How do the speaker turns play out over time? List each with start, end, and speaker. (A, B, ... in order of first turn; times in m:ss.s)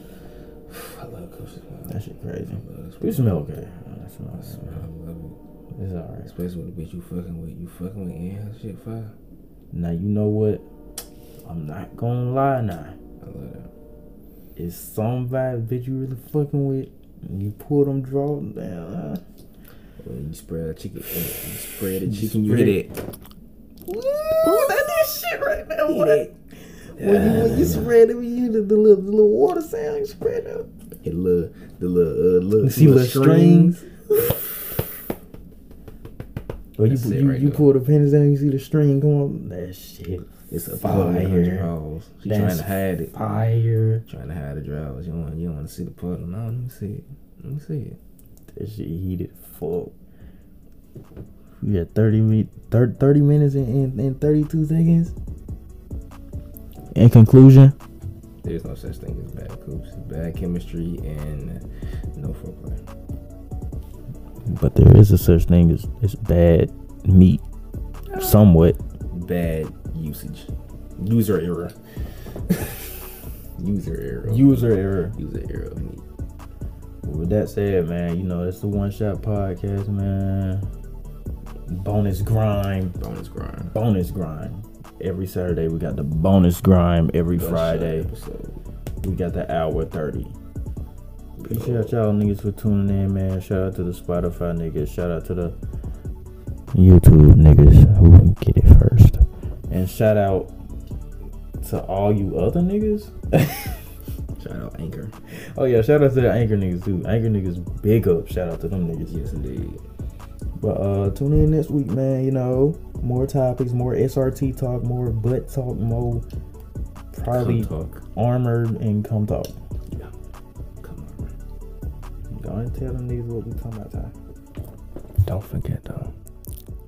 0:00.7-0:03.6 A
0:01.9-0:04.8 B
0:04.3-0:05.4 A
0:05.8-0:06.3 B
0:06.2-0:09.1 A
0:09.7-0:10.6 B
0:11.4-0:13.0 B
0:13.2-0:13.7 A
0:14.6-0:19.2 B
0:20.0-0:23.0 A
0:22.0-0:22.8 B
0:23.9-0:24.8 A
0:24.4-0:26.3 B
0:25.8-0:26.3 A
0:26.9-0:30.7 B
0:27.0-0:27.9 A
0:31.0-0:34.4 A
0:32.6-0:33.8 B
0:36.8-0:41.7 B
0:36.9-0:37.7 A
0:40.5-0:43.4 A
0:42.3-0:44.0 B
0:44.1-0:48.0 A
0:48.5-0:49.9 B
0:51.6-0:55.1 B
0:56.9-0:57.8 B
0:58.4-1:01.6 A
1:02.2-1:02.8 A
1:04.4-1:07.4 B
1:08.1-1:08.4 A
1:08.1-1:08.8 B
1:09.1-1:11.8 A
1:12.4-1:16.0 A
1:14.3-1:15.2 B
1:17.0-1:20.7 B
1:21.7-1:23.0 B
1:23.0-1:23.8 A
1:23.7-1:28.1 B
1:27.4-1:28.6 A
1:29.0-1:30.4 B
1:31.4-1:32.0 A
1:31.5-1:35.6 B
1:36.7-1:40.5 B
1:41.6-1:43.8 B
1:44.4-1:45.2 A
1:45.3-1:49.2 B
1:49.0-1:49.8 A
1:50.6-1:56.2 B
1:57.1-1:59.6 B
1:57.2-1:58.0 A
2:00.8-2:01.3 A
2:02.3-2:04.1 B
2:05.2-2:06.1 A